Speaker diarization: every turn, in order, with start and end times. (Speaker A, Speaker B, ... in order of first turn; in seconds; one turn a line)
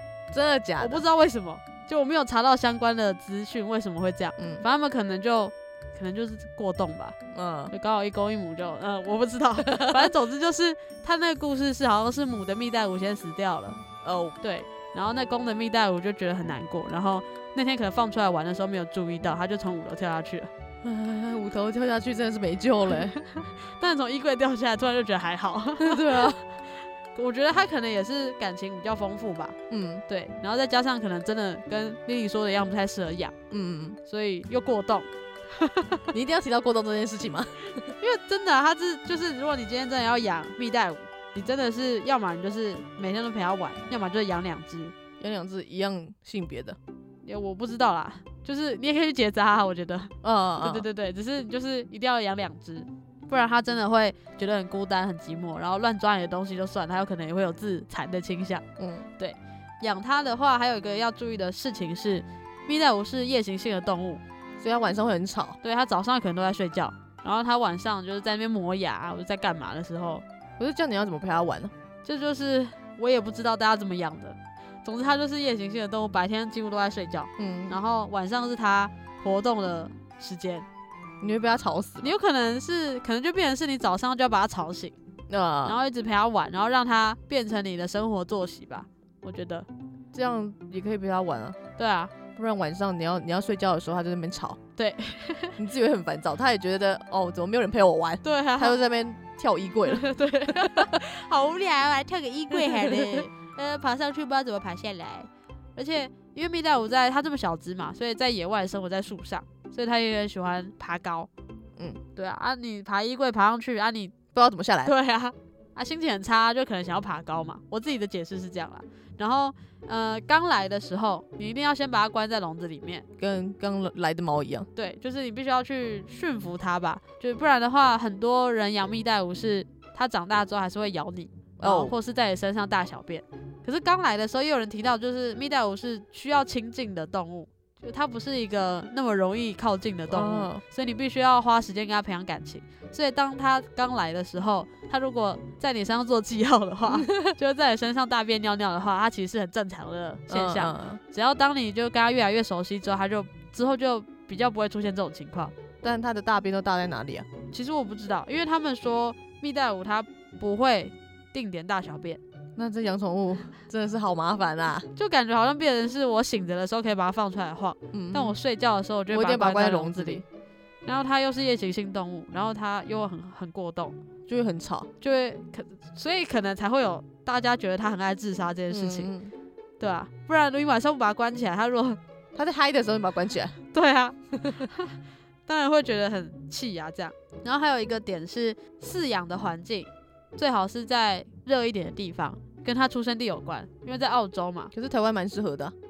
Speaker A: 0.3-1.1
Speaker B: 0.8-7.2
Speaker A: 4.4-4.7
Speaker A: 7.3-7.7
Speaker B: 7.7-13.8
Speaker A: 9.6-10.1
Speaker A: 14.0-14.4
Speaker B: 14.4-20.5
Speaker A: 20.8-23.2
Speaker B: 23.0-29.6
Speaker A: 25.8-26.4
Speaker A: 29.7-30.1
Speaker B: 30.1-33.3
Speaker A: 33.5-34.0
Speaker B: 34.1-36.1
Speaker A: 36.1-37.9
Speaker B: 38.0-44.9
Speaker A: 45.2-46.8
Speaker B: 47.2-58.6
Speaker A: 50.2-50.9
Speaker A: 58.8-59.1
Speaker B: 59.2-64.2
Speaker A: 64.6-65.6
Speaker B: 65.6-70.2
Speaker A: 70.6-71.7
Speaker B: 72.0-80.7
Speaker A: 77.4-77.8
Speaker A: 81.2-82.1
Speaker B: 82.0-85.0
Speaker A: 85.3-85.8
Speaker B: 85.7-89.7
Speaker A: 90.1-91.6
Speaker B: 91.8-92.1
Speaker A: 92.4-94.6
Speaker B: 94.8-95.6
Speaker A: 95.6-100.9
Speaker B: 98.2-98.8
Speaker B: 99.9-111.3
Speaker A: 102.5-103.1
Speaker B: 112.2-114.2
Speaker A: 114.3-115.0
Speaker B: 114.8-123.0
Speaker A: 123.2-124.7
Speaker B: 124.8-155.5
Speaker A: 131.6-131.9
Speaker A: 140.1-140.6
Speaker A: 146.9-147.4
Speaker A: 150.3-151.0
Speaker A: 155.8-157.3
Speaker B: 157.5-162.2
Speaker A: 162.6-164.9
Speaker B: 164.9-170.2
Speaker A: 167.9-168.4
Speaker A: 169.1-170.2
Speaker B: 170.9-174.0
Speaker A: 174.3-174.9
Speaker B: 175.0-179.1
Speaker A: 178.7-179.3
Speaker B: 179.8-182.0
Speaker A: 182.3-183.6
Speaker B: 183.7-194.7
Speaker A: 194.7-195.7